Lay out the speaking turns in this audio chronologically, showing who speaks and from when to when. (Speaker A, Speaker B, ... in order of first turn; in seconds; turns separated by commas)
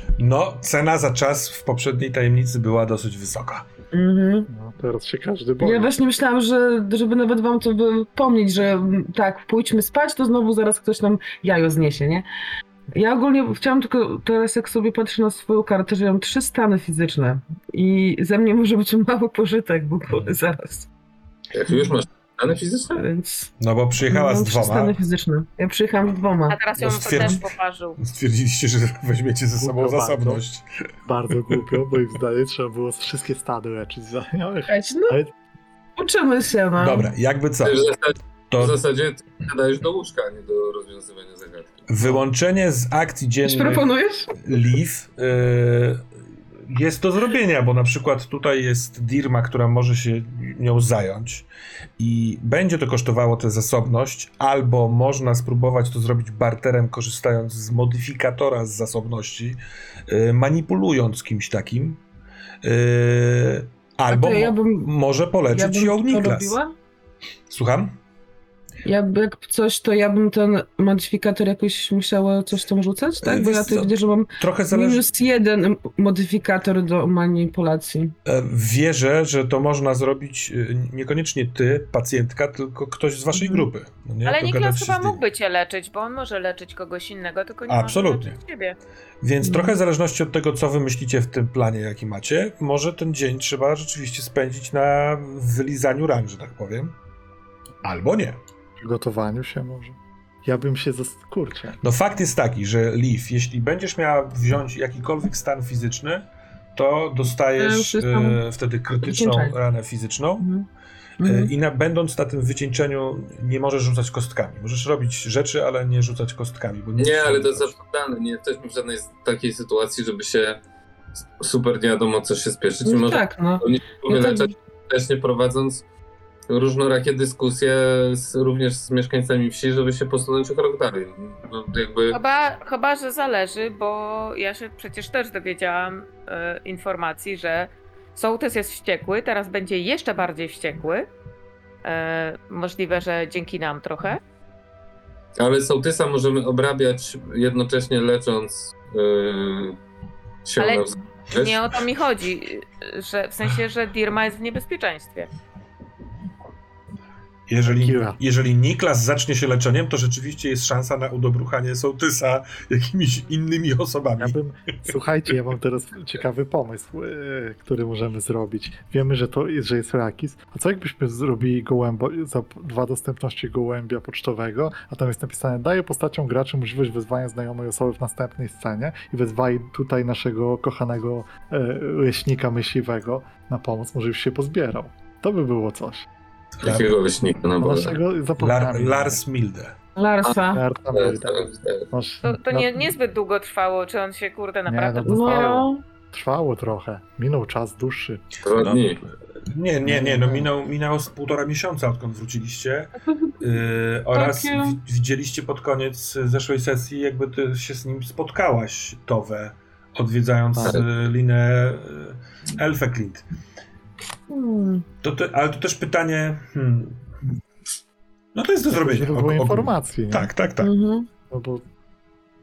Speaker A: 0.2-3.6, Speaker B: 3.9-4.5, Speaker C: 4.5-6.0, Speaker B: 5.6-12.2, Speaker B: 12.9-20.9, Speaker D: 21.5-23.0, Speaker B: 22.9-23.5, Speaker A: 23.6-25.0, Speaker B: 24.1-26.6, Speaker E: 26.5-28.0, Speaker A: 26.8-30.7, Speaker B: 27.1-27.4, Speaker C: 29.6-30.4, Speaker C: 31.1-35.3, Speaker B: 34.7-35.2, Speaker B: 36.0-37.1, Speaker A: 36.8-37.9, Speaker D: 37.6-41.8, Speaker A: 38.5-38.8, Speaker A: 41.9-43.9, Speaker B: 43.4-44.4, Speaker A: 44.4-46.0, Speaker A: 46.7-51.5, Speaker A: 52.0-62.0, Speaker A: 62.6-66.6, Speaker B: 64.1-64.9, Speaker B: 65.5-66.7, Speaker A: 67.5-68.0, Speaker B: 68.8-78.1, Speaker A: 73.2-75.1, Speaker A: 78.3-85.2, Speaker B: 83.4-83.7, Speaker E: 84.2-88.8, Speaker A: 87.7-88.4, Speaker A: 89.2-97.0, Speaker B: 89.4-89.8, Speaker A: 97.8-98.4, Speaker C: 98.8-101.8, Speaker A: 101.8-110.5, Speaker B: 107.6-108.4, Speaker B: 109.0-109.6, Speaker B: 110.4-110.7, Speaker B: 111.2-111.5, Speaker A: 111.2-117.8, Speaker D: 117.0-120.6, Speaker D: 121.4-125.8, Speaker B: 122.8-124.5, Speaker D: 126.5-132.2, Speaker E: 132.1-141.1, Speaker E: 141.8-144.2, Speaker D: 145.4-149.8, Speaker D: 150.4-151.7, Speaker E: 150.6-155.3, Speaker A: 157.5-164.4, Speaker C: 157.7-158.2, Speaker C: 164.2-186.1, Speaker A: 186.6-187.0, Speaker D: 186.6-188.0, Speaker C: 187.6-189.2, Speaker A: 188.4-189.8, Speaker B: 190.0-190.6, Speaker D: 190.2-191.8, Speaker C: 190.5-192.9, Speaker E: 192.2-195.5, Speaker C: 194.7-198.2, Speaker B: 195.1-195.8, Speaker D: 198.4-199.0, Speaker A: 198.6-213.2, Speaker C: 199.8-200.5, Speaker B: 203.0-203.5, Speaker B: 204.1-204.8, Speaker C: 210.6-210.8, Speaker B: 214.3-214.8, Speaker A: 215.0-217.0, Speaker A: 218.3-220.7, Speaker C: 218.7-220.3, Speaker B: 220.6-221.1, Speaker C: 221.3-221.7